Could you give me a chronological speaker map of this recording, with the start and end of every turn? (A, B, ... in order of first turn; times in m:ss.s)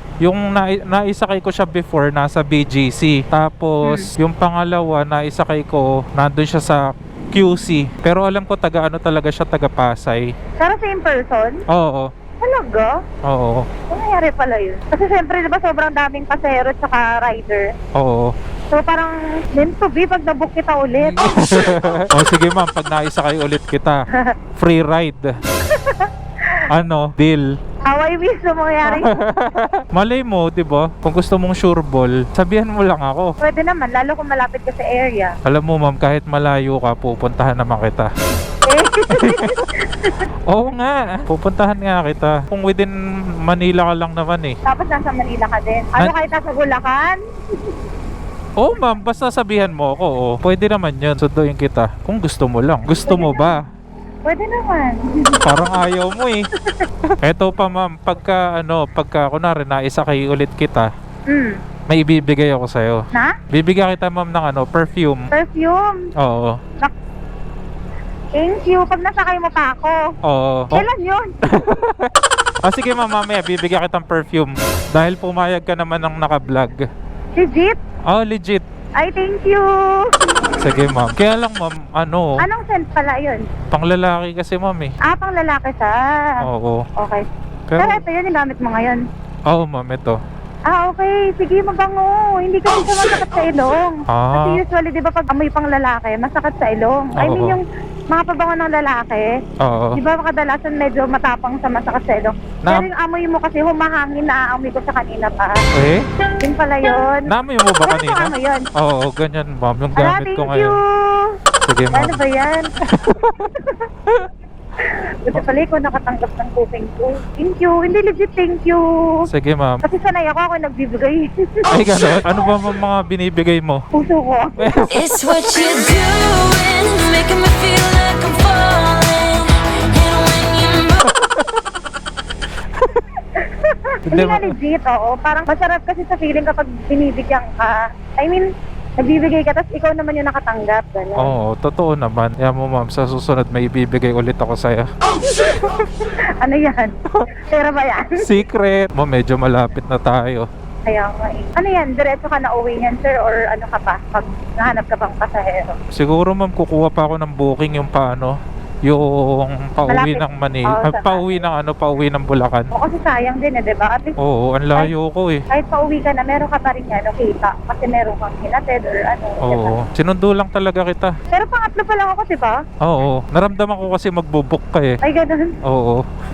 0:00.2-0:10.2 A
0:03.8-0:04.1 B
0:10.6-0:11.6 B
0:11.7-0:12.1 A
0:12.4-0:12.9 B
0:13.3-0:13.7 A
0:13.9-0:17.7 B
0:18.0-0:18.3 A
0:18.7-0:21.2 B
0:21.0-0:24.0 A
0:24.6-0:25.2 A
0:25.6-0:26.7 B
0:26.7-0:27.4 A
0:27.9-0:29.1 B
0:28.8-0:33.3 A
0:33.4-0:35.3 B
0:35.4-0:38.1 A
0:38.7-0:40.3 B
0:39.1-0:39.5 A
0:40.5-0:42.9 A
0:43.5-0:44.5 A
0:44.7-0:47.2 B
0:48.6-0:53.6 A
0:53.1-0:53.5 B
0:54.3-0:55.4 B
0:55.4-0:56.4 A
0:57.2-1:00.9 A
1:01.9-1:03.0 A
1:03.5-1:05.3 A
1:05.3-1:06.0 B
1:06.2-1:06.6 A
1:08.4-1:10.0 B
1:10.3-1:10.8 A
1:10.7-1:11.3 B
1:11.5-1:12.1 A
1:12.6-1:16.8 A
1:17.4-1:17.8 B
1:18.1-1:18.6 A
1:19.0-1:20.6 B
1:20.6-1:22.4 A
1:22.4-1:23.4 B
1:23.7-1:25.0 A
1:25.1-1:26.3 B
1:26.4-1:26.8 A
1:27.0-1:27.3 B
1:27.7-1:28.0 A
1:27.8-1:29.0 B
1:29.5-1:30.2 A
1:30.7-1:39.3 B
1:34.1-1:34.6 A
1:37.2-1:37.6 A
1:39.6-1:40.0 A
1:40.0-1:45.6 B
1:45.7-1:46.1 A
1:46.4-1:47.3 B
1:47.3-1:50.8 A
1:47.8-1:48.7 B
1:50.0-1:51.4 B
1:51.6-1:52.2 A
1:51.9-1:52.7 B
1:52.9-1:53.5 A
1:53.5-1:53.8 B
1:54.8-1:58.8 B
1:59.3-1:59.8 A
1:59.8-2:01.6 B
2:01.7-2:03.8 A
2:04.0-2:04.7 B
2:04.6-2:05.0 A
2:04.9-2:11.2 C
2:11.1-2:11.6 A
2:12.8-2:13.0 A
2:13.4-2:18.4 B
2:14.1-2:14.6 A
2:19.0-2:21.3 B
2:21.2-2:24.9 A
2:25.2-2:25.8 B
2:26.4-2:28.2 B
2:28.2-2:30.5 A
2:30.9-2:35.8 B
2:36.0-2:38.3 A
2:38.9-2:42.7 A
2:39.9-2:41.3 B
2:42.7-2:44.2 B
2:44.2-2:45.4 A
2:45.5-2:49.7 B
2:49.4-2:51.1 A
2:51.3-2:52.5 B
2:52.8-2:55.0 A
2:55.0-2:55.6 B
2:55.6-2:56.0 A